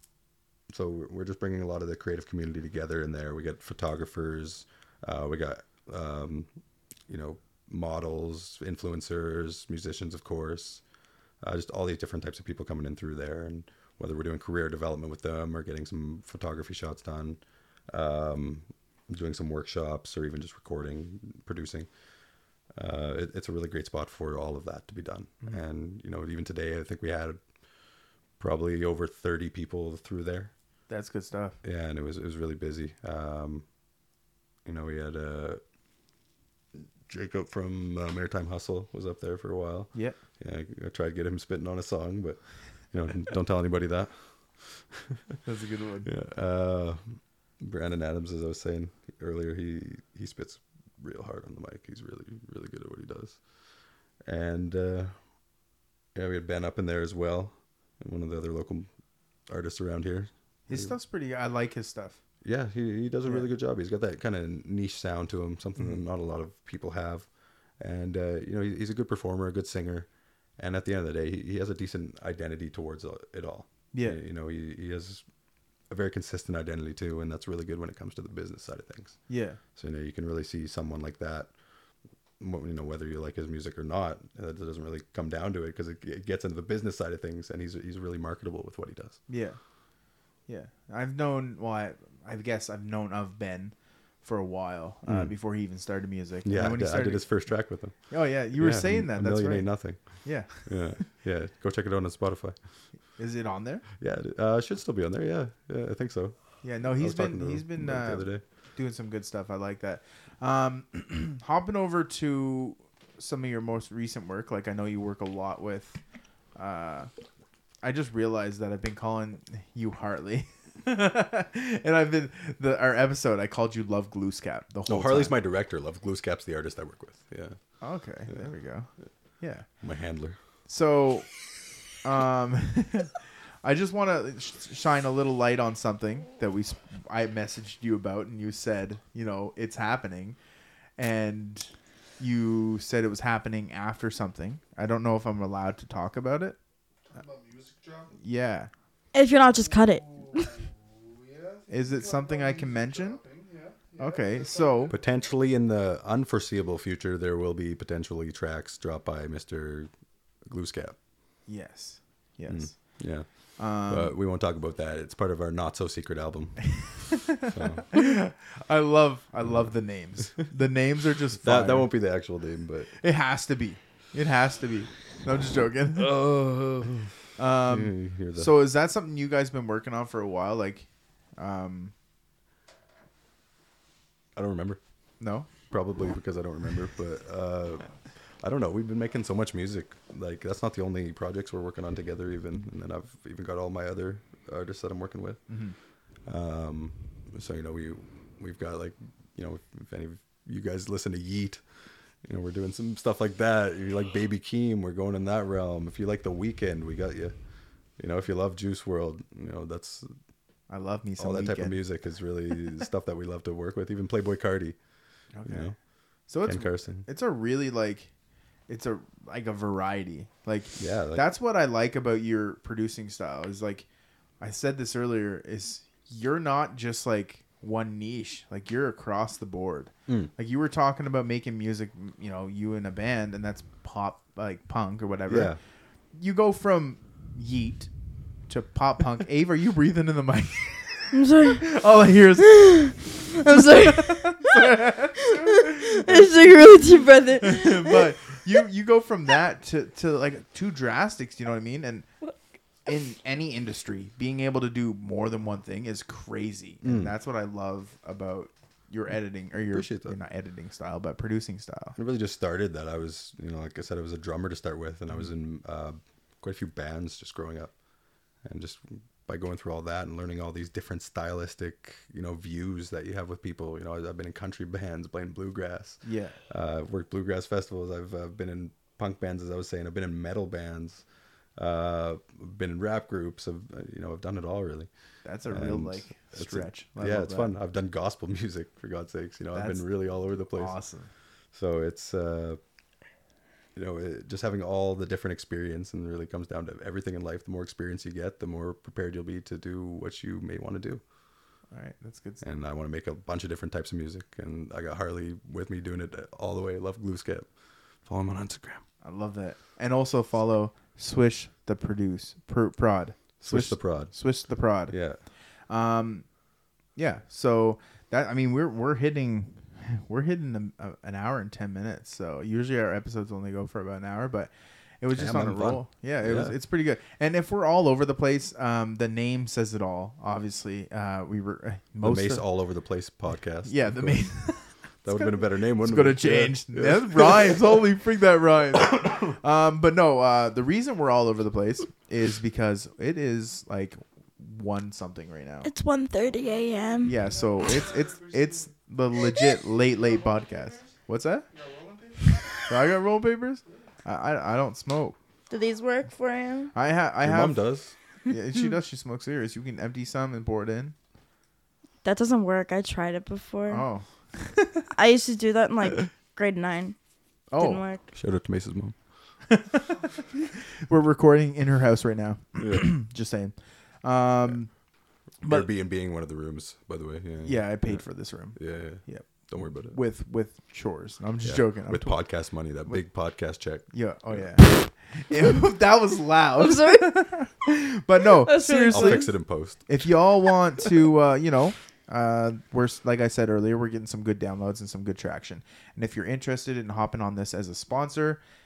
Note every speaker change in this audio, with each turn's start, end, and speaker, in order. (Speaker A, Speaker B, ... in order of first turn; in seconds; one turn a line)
Speaker A: 0.7-6.5
Speaker A: 7.1-10.8
Speaker A: 11.4-21.9
Speaker A: 22.7-27.4
Speaker A: 28.4-30.5
Speaker B: 30.9-31.6
Speaker A: 31.6-33.6
Speaker A: 34.6-35.6
Speaker A: 36.7-42.4
Speaker A: 42.9-45.4
Speaker B: 45.5-46.1
Speaker A: 46.0-53.4
Speaker A: 54.2-55.2
Speaker A: 56.1-58.9
Speaker A: 59.5-60.9
Speaker B: 60.7-62.2
Speaker A: 62.4-67.3
Speaker A: 67.8-75.2
Speaker B: 73.9-74.2
Speaker A: 75.9-79.2
Speaker B: 79.3-79.6
Speaker A: 79.7-81.5
Speaker A: 82.4-89.2
Speaker B: 89.3-89.6
Speaker B: 90.5-97.5
Speaker A: 95.1-95.3
Speaker A: 96.5-102.6
Speaker B: 98.1-100.7
Speaker B: 103.2-103.8
Speaker A: 104.0-108.4
Speaker B: 106.6-116.0
Speaker B: 116.6-117.1
Speaker B: 117.8-125.3
Speaker A: 124.9-127.6
Speaker B: 127.8-128.9
Speaker B: 129.4-129.7
Speaker A: 129.8-130.4
Speaker B: 130.7-131.3
Speaker B: 132.0-140.4
Speaker B: 141.0-146.6
Speaker C: 147.1-148.2
Speaker B: 148.2-148.7
Speaker D: 149.1-150.6
Speaker C: 149.5-155.1
Speaker B: 151.7-153.2
Speaker B: 154.0-154.9
Speaker A: 154.9-159.9
Speaker A: 160.4-160.9
Speaker B: 161.5-162.9
Speaker A: 162.5-163.3
Speaker B: 163.6-164.1
Speaker A: 163.8-167.9
Speaker B: 166.8-171.9
Speaker A: 171.4-172.9
Speaker B: 173.0-176.2
Speaker A: 175.9-177.1
Speaker B: 177.4-181.9
Speaker A: 177.7-178.6
Speaker A: 184.4-184.8
Speaker B: 185.2-185.5
Speaker A: 185.7-187.9
Speaker A: 188.4-195.4
Speaker B: 195.5-195.7
Speaker A: 196.3-201.6
Speaker A: 202.2-207.3
Speaker A: 208.0-210.1
Speaker B: 210.7-211.8
Speaker A: 211.2-214.8
Speaker B: 215.3-215.7
Speaker A: 215.4-215.7
Speaker B: 216.3-218.1
Speaker A: 216.4-217.1
Speaker B: 218.7-223.8
Speaker A: 220.8-221.3
Speaker B: 224.4-235.5
Speaker A: 235.3-235.6
Speaker B: 236.1-237.9
Speaker B: 238.5-246.8
Speaker D: 241.1-241.7
Speaker D: 242.6-244.6
Speaker D: 245.6-248.1
Speaker B: 247.4-252.1
Speaker B: 252.8-262.0
Speaker A: 256.8-257.1
Speaker A: 259.7-260.2
Speaker A: 261.9-267.7
Speaker A: 268.4-281.0
Speaker B: 276.0-276.4
Speaker A: 281.6-284.9
Speaker B: 285.2-287.6
Speaker A: 285.5-290.7
Speaker B: 289.5-289.9
Speaker B: 290.5-291.1
Speaker A: 291.5-292.6
Speaker A: 293.7-301.0
Speaker B: 301.7-302.4
Speaker A: 302.4-307.5
Speaker A: 308.1-308.8
Speaker B: 309.0-314.9
Speaker A: 313.4-314.1
Speaker A: 314.9-315.2
Speaker B: 315.7-316.2
Speaker B: 317.0-324.5
Speaker B: 325.0-332.5
Speaker A: 325.1-326.6
Speaker A: 332.0-334.2
Speaker B: 333.6-345.7
Speaker A: 335.0-337.7
Speaker D: 345.6-347.2
Speaker C: 347.0-348.7
Speaker B: 347.0-351.5
Speaker C: 349.9-350.9
Speaker C: 351.5-352.6
Speaker B: 352.7-355.2
Speaker D: 355.5-356.7
Speaker B: 356.7-357.6
Speaker A: 357.2-357.9
Speaker B: 358.2-360.9
Speaker D: 362.0-363.8
Speaker B: 363.7-364.9
Speaker D: 364.9-367.0
Speaker B: 367.5-367.8
Speaker D: 367.6-368.0
Speaker A: 368.1-368.9
Speaker B: 369.5-374.7
Speaker A: 372.6-372.9
Speaker B: 375.4-375.7
Speaker A: 375.4-378.0
Speaker B: 377.4-382.2
Speaker A: 378.6-380.0
Speaker A: 381.4-384.4
Speaker B: 383.9-389.3
Speaker D: 386.6-387.3
Speaker D: 388.4-389.3
Speaker A: 388.9-389.8
Speaker B: 389.9-398.4